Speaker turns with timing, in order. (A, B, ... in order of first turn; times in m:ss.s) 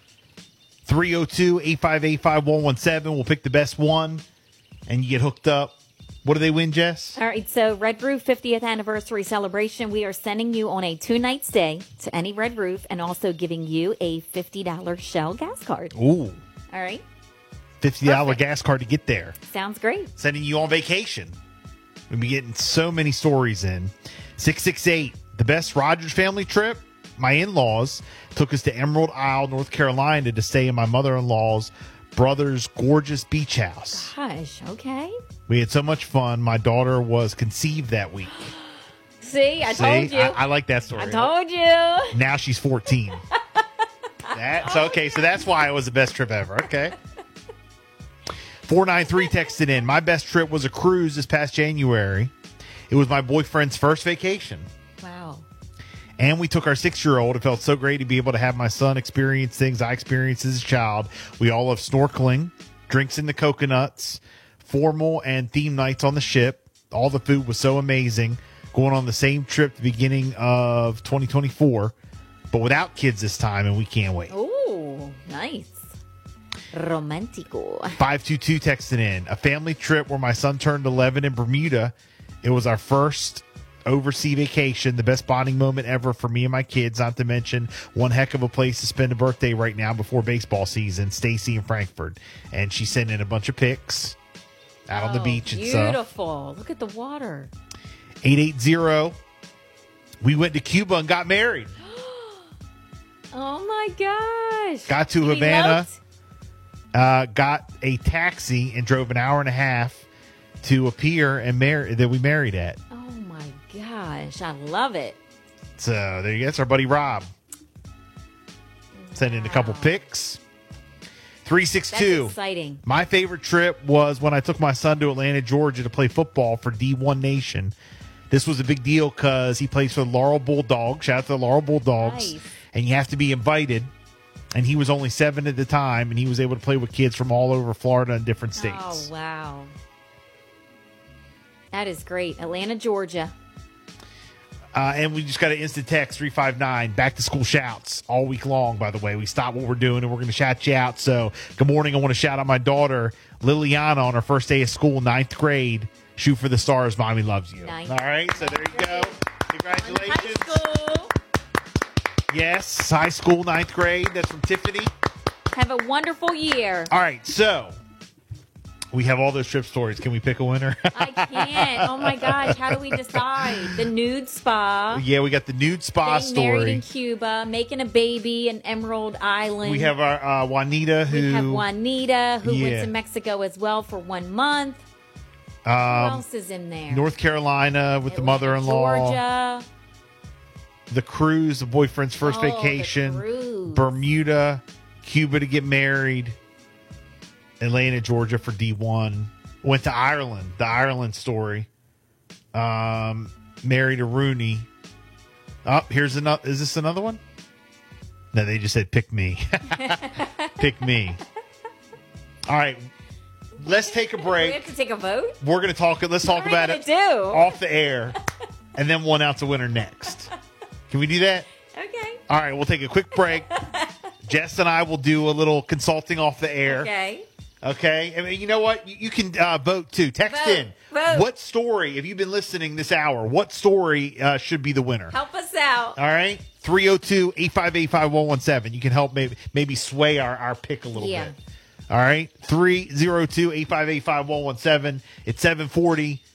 0:00.8-0:04.2 A
0:04.9-0:07.2 A
0:07.2-0:15.9 B
0:15.9-0:16.4 A
0:16.7-0:17.0 B
0:17.8-0:19.4 A
0:18.0-0:18.4 B
0:19.5-0:20.1 B
0:20.2-0:21.4 A
0:22.1-0:34.1 A
0:33.9-0:35.1 B
0:35.5-0:38.5 A
0:39.2-0:40.4 B
0:39.6-0:41.3 A
0:40.9-0:42.2 B
0:42.1-0:43.2 A
0:44.3-0:45.3 B
0:44.3-0:47.0 A
0:48.6-0:52.3 A
0:52.9-0:54.7 A
0:55.0-0:55.5 B
0:56.2-1:11.9 A
1:12.5-1:14.3 A
1:14.3-1:15.9 B
1:16.7-1:18.0 B
1:18.0-1:34.2 A
1:34.9-1:36.0 A
1:34.9-1:37.5 B
1:38.2-1:39.2 A
1:40.2-1:41.7 A
1:41.8-1:42.5 B
1:43.3-1:46.0 B
1:44.9-1:45.9 A
1:46.9-1:50.0 A
1:50.6-1:52.8 A
1:52.9-1:55.2 B
1:55.8-1:57.3 A
1:58.9-2:00.0 B
1:59.2-2:00.4 A
2:01.4-2:02.3 A
2:01.9-2:02.8 B
2:02.8-2:07.7 A
2:08.3-2:13.9 A
2:12.0-2:12.5 B
2:14.5-2:19.1 A
2:18.6-2:19.7 B
2:21.7-2:23.3 B
2:24.7-2:40.6 A
2:37.6-2:39.2 B
2:39.7-2:41.1 B
2:42.3-2:44.9 A
2:45.5-2:46.9 B
2:46.9-2:47.8 A
2:48.9-2:53.7 A
2:50.9-2:55.0 B
2:54.9-2:56.8 A
2:56.0-2:59.9 B
2:59.6-3:01.6 A
3:01.1-3:04.8 B
3:02.4-3:02.9 A
3:05.6-3:06.2 A
3:05.8-3:07.0 B
3:06.9-3:09.2 A
3:08.1-3:09.6 B
3:10.9-3:16.4 A
3:12.2-3:13.9 B
3:17.6-3:21.7 A
3:22.5-3:24.7 A
3:25.6-3:27.2 A
3:28.3-3:31.2 A
3:29.7-3:30.7 B
3:32.5-3:32.8 A
3:33.6-3:34.7 A
3:34.0-3:35.4 B
3:35.4-3:38.2 A
3:36.2-3:37.6 B
3:38.7-3:40.3 A
3:40.9-3:41.5 A
3:41.7-3:42.2 B
3:42.3-3:43.5 A
3:43.1-3:44.0 B
3:44.2-3:46.9 A
3:46.6-3:47.2 B
3:47.6-3:55.2 A
3:50.2-3:51.3 B
3:55.1-3:56.0 B
3:56.0-4:01.3 A
4:00.9-4:01.3 B
4:01.9-4:06.2 A